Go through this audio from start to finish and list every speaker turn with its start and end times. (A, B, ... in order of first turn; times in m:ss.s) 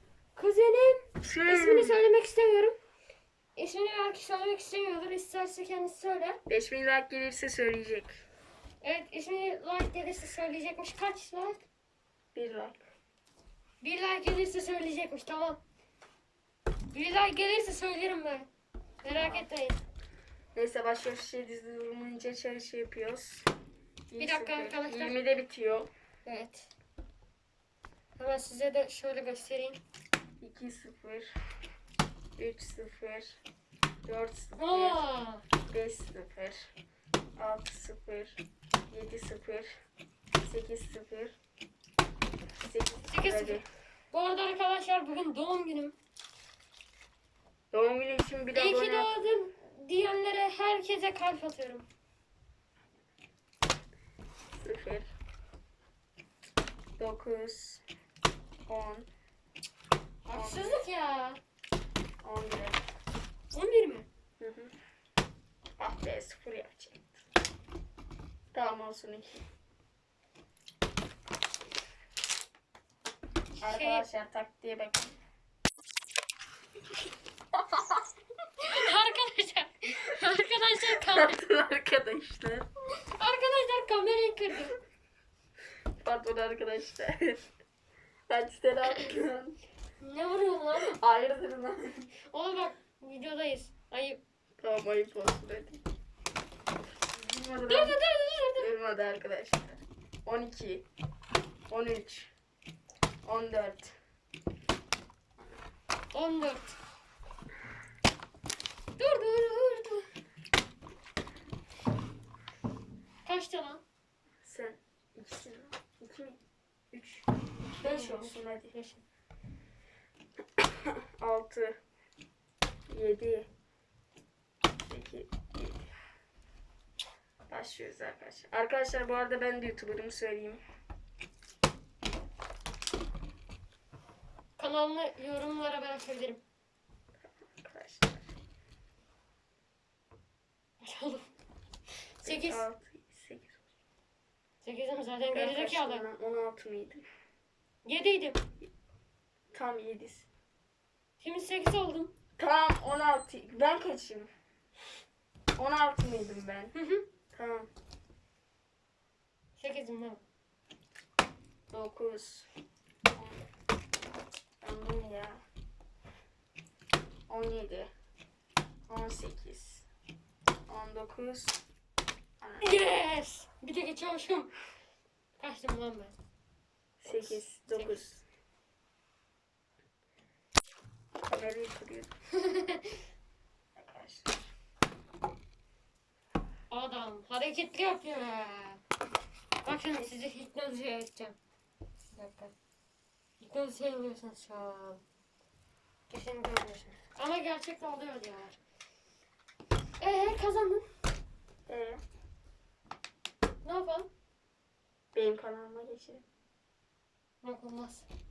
0:00.3-0:02.8 A
0:01.2-0:02.0 B
0:03.6-0:06.4 A
0:06.5-0:08.1 B
0:08.8-0:11.6 A
0:12.4-0:12.8 B
0:13.8-0:15.6 A
0:16.9-0:18.5 A
0:19.0-0:19.8 A
0:19.1-0:19.5 B
0:20.5-0:23.5 B
0:24.1-0:25.9 B
0:24.2-0:25.2 A
0:26.2-0:26.7 A
0:28.2-0:29.8 A
0:30.4-0:31.3 B
0:32.4-0:33.4 B
0:34.0-0:35.0 B
0:34.6-0:35.4 A
0:35.7-0:36.7 B
0:37.4-0:38.4 B
0:38.9-0:39.7 B
0:40.4-0:41.4 B
0:42.6-0:43.6 B
0:43.1-0:43.6 A
0:44.1-0:46.0 A
0:47.7-0:49.1 B
0:48.5-0:51.9 A
0:54.6-0:55.1 B
0:57.0-0:57.8 B
0:58.7-0:59.1 B
1:00.2-1:01.4 A
1:00.3-1:00.8 B
1:02.2-1:02.8 B
1:03.5-1:04.1 A
1:04.4-1:04.7 B
1:05.8-1:07.2 B
1:08.5-1:09.4 B
1:13.6-1:15.2 B
1:13.7-1:14.1 A
1:17.6-1:18.0 B
1:18.7-1:21.4 A
1:21.0-1:22.7 B
1:23.1-1:24.8 A
1:26.0-1:27.5 B
1:28.3-1:29.6 B
1:30.0-1:30.9 A
1:30.8-1:32.0 B
1:32.3-1:34.2 A
1:34.6-1:35.8 B
1:37.1-1:38.0 B
1:37.7-1:38.7 A
1:38.6-1:40.8 B
1:41.7-1:42.3 B
1:43.2-1:43.9 B
1:46.1-1:46.8 A
1:49.0-1:50.0 A
1:53.2-1:53.8 A
1:54.4-1:56.4 B
1:56.9-1:57.2 B
1:57.8-1:58.7 B
1:57.8-1:59.0 A
2:00.6-2:01.8 B
2:02.9-2:03.5 B
2:04.9-2:05.9 B
2:07.5-2:10.6 B
2:14.6-2:16.4 A
2:17.2-2:18.3 B
2:20.8-2:21.3 A
2:22.2-2:22.6 A
2:22.2-2:23.6 B
2:24.6-2:26.1 A
2:25.3-2:27.0 B
2:27.8-2:28.4 A
2:29.5-2:30.3 B
2:31.2-2:32.1 A
2:32.4-2:34.3 B
2:35.6-2:36.8 B
2:36.8-2:37.1 A
2:37.3-2:37.7 B
2:39.6-2:40.2 A
2:41.7-2:42.5 B
2:43.2-2:43.4 B
2:44.6-2:45.4 B
2:47.3-2:47.9 B
2:48.9-2:49.9 B
2:50.7-2:51.6 B
2:52.4-2:52.8 B
2:52.6-2:54.5 A
2:55.4-2:56.1 A
2:57.0-2:58.2 B
2:57.1-2:58.0 A
3:01.3-3:02.1 B
3:02.4-3:02.9 A
3:03.8-3:04.4 B
3:06.7-3:08.8 A
3:09.6-3:11.4 A
3:12.2-3:12.5 A
3:13.4-3:15.0 A
3:16.1-3:18.6 A
3:20.0-3:20.9 A
3:21.7-3:22.0 B
3:23.6-3:24.1 A
3:25.1-3:26.2 B
3:27.4-3:28.0 A